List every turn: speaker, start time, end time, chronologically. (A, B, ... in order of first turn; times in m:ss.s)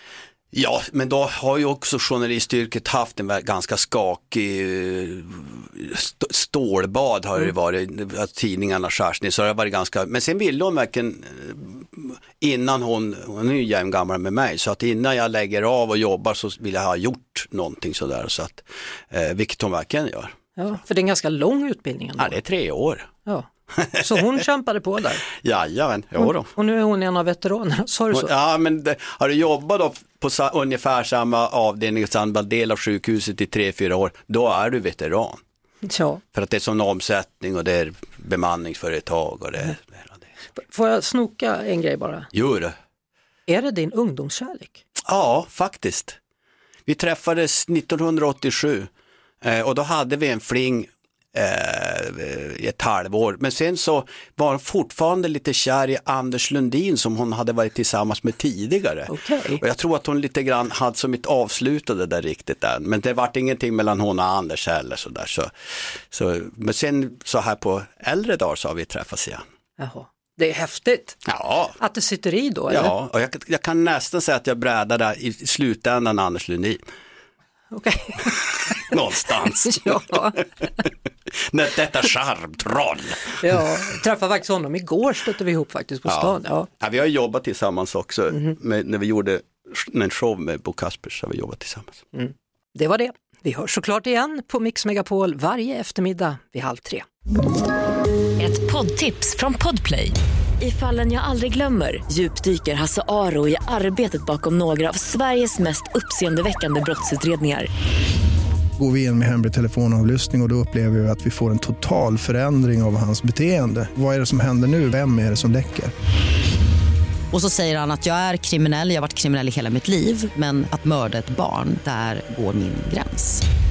0:00.5-0:20.3 A
0:20.6-0:22.4 B
0:22.2-0:23.1 A
0:23.2-0:25.2 B
0:25.3-0:26.5 A
0:26.2-0:28.3 B
0:28.1-0:35.4 A
0:35.8-0:36.2 B
0:36.3-0:40.2 A
0:40.6-0:42.3 B
0:42.3-0:42.7 A
0:43.5-0:44.8 B
0:45.1-0:46.2 A
0:46.9-0:48.9 A
0:49.4-1:09.4 A
0:59.1-0:59.6 B
1:09.8-1:11.2 B
1:11.2-1:11.8 A
1:11.8-1:12.9 B
1:12.7-1:16.8 A
1:17.7-1:20.4 B
1:18.3-1:20.2 A
1:21.3-1:23.4 A
1:23.4-1:26.7 B
1:26.0-1:32.0 A
1:32.1-1:37.0 B
1:38.4-1:47.7 C
1:48.8-1:55.9 D
1:57.3-2:03.4 E